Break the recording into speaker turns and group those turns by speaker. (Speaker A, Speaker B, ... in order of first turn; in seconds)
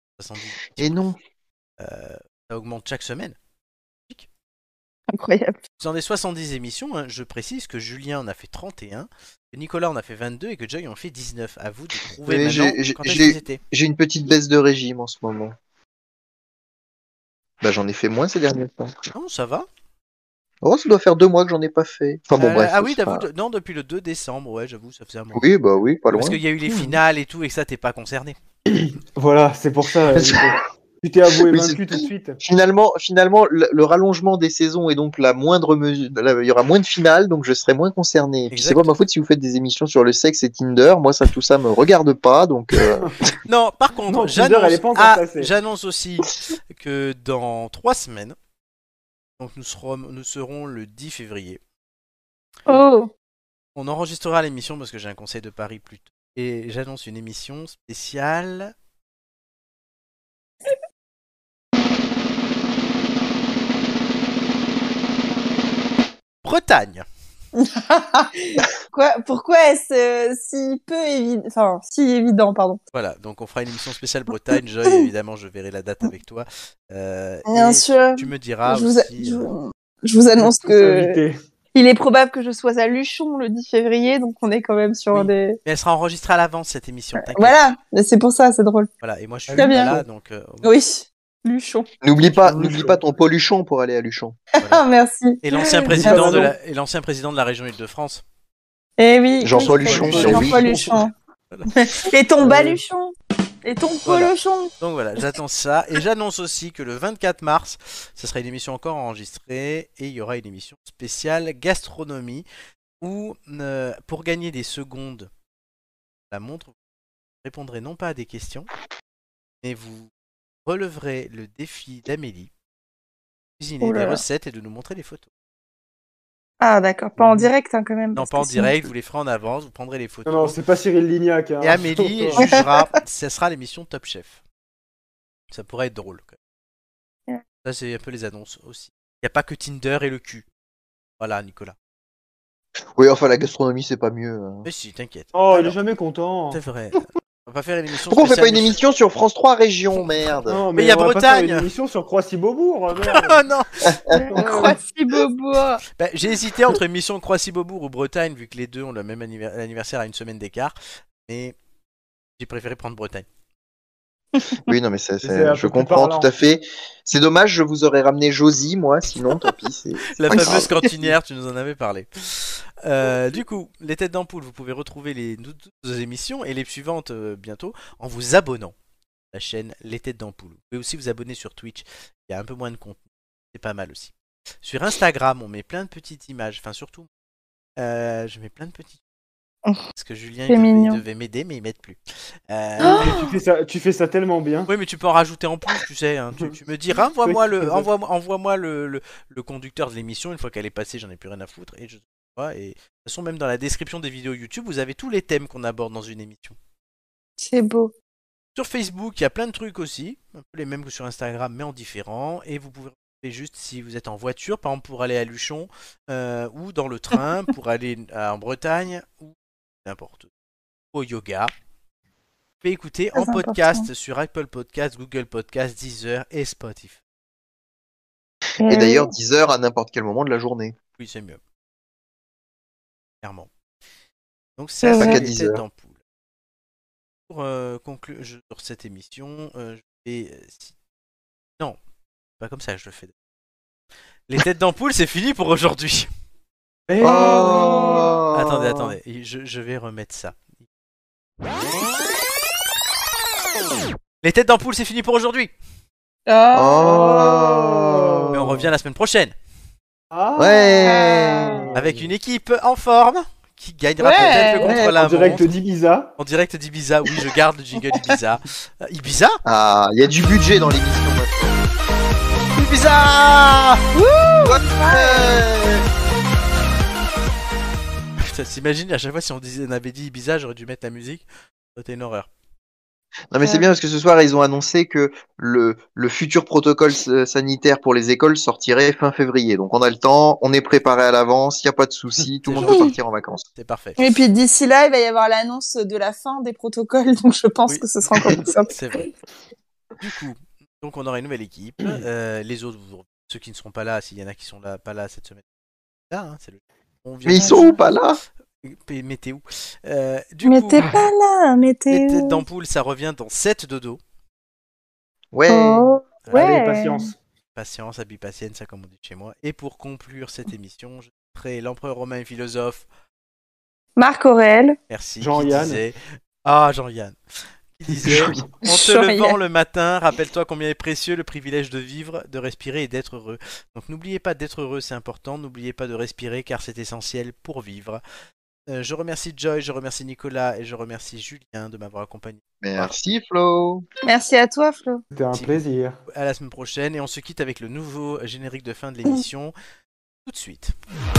Speaker A: 0.2-0.9, 1.8-3.4, 5.8-13.6, 19.1-19.7, 22.3-25.4, 26.1-28.4, 38.5-38.9, 43.5-48.4, 49.4-51.6, 53.8-58.7, 66.4-67.1, 72.9-79.5, 85.1-87.6, 89.0-90.7, 95.4-98.2, 99.9-100.6, 104.1-112.5, 113.0-115.3, 116.3-116.7, 117.4-118.7, 119.6-120.1, 120.7-122.5, 123.6-125.3, 128.2-130.6, 131.6-134.4, 135.5-136.4, 137.6-140.4, 141.2-141.8, 144.6-145.8, 146.5-148.8, 149.9-151.7, 153.0-154.0, 156.0-161.6, 162.4-163.3, 170.2-178.7, 179.3-183.0, 183.5-184.1, 184.6-187.1, 187.8-189.0, 189.9-193.2, 194.7-206.6, 208.6-220.3, 220.9-221.5, 222.6-227.0, 231.0-231.4, 233.2-233.5, 234.6-236.0, 237.3-240.7, 242.4-243.1, 244.3-246.1, 248.3-250.4, 254.2-255.5, 258.3-259.3, 261.8-265.5, 266.2-269.4, 272.6-273.8, 278.2-282.3, 292.4-292.9, 293.6-294.0, 298.7-299.1, 300.0-305.4, 306.1-307.7, 308.6-310.8, 311.9-314.0, 317.6-322.9, 324.9-327.2, 327.8-338.0, 338.7-342.9, 346.1-349.6, 350.2-350.8
Speaker B: 0.8-1.2, 12.3-15.6, 17.6-19.0, 20.6-23.2, 25.3-27.0, 30.1-30.5, 31.4-43.1, 92.0-94.4, 99.4-100.6, 143.0-144.7, 148.1-150.6, 164.7-170.7, 228.7-230.8, 235.0-235.6, 247.0-248.9, 256.5-258.4, 260.4-261.6, 269.4-271.6, 274.4-275.9, 283.3-293.4, 307.2-308.2, 315.3-315.9, 327.9-328.4, 342.6-343.9
Speaker C: 5.1-5.6, 52.7-53.1, 67.6-72.8, 77.5-81.2, 81.7-85.6, 87.2-88.9, 89.5-89.9, 90.6-91.9, 94.6-96.4, 99.0-101.1, 101.7-104.7, 123.8-124.2, 126.6-128.7, 132.4-132.6, 154.1-155.8, 190.5-191.0, 192.8-193.3, 207.4-207.9, 223.2-223.9, 228.6-229.1, 234.8-235.2, 247.4-248.0, 256.3-257.8, 260.8-261.7, 264.0-264.8, 273.9-275.4, 283.4-283.7, 294.0-298.7, 307.4-307.8, 310.4-312.4, 315.5-317.1, 324.0-324.8, 328.6-329.4, 344.1-345.0
Speaker D: 28.7-32.4, 44.1-45.5, 80.3-81.4, 89.5-90.0, 92.3-93.0, 95.9-96.5, 99.6-101.0, 102.4-102.8, 127.2-127.5, 130.3-132.5, 145.3-146.6, 150.5-153.4, 154.1-154.8, 165.2-166.3, 192.8-194.7, 196.4-197.9, 246.9-248.1, 257.8-258.7, 260.1-262.1, 264.6-266.1, 310.8-311.1, 316.3-317.2, 325.2-325.8, 345.1-346.0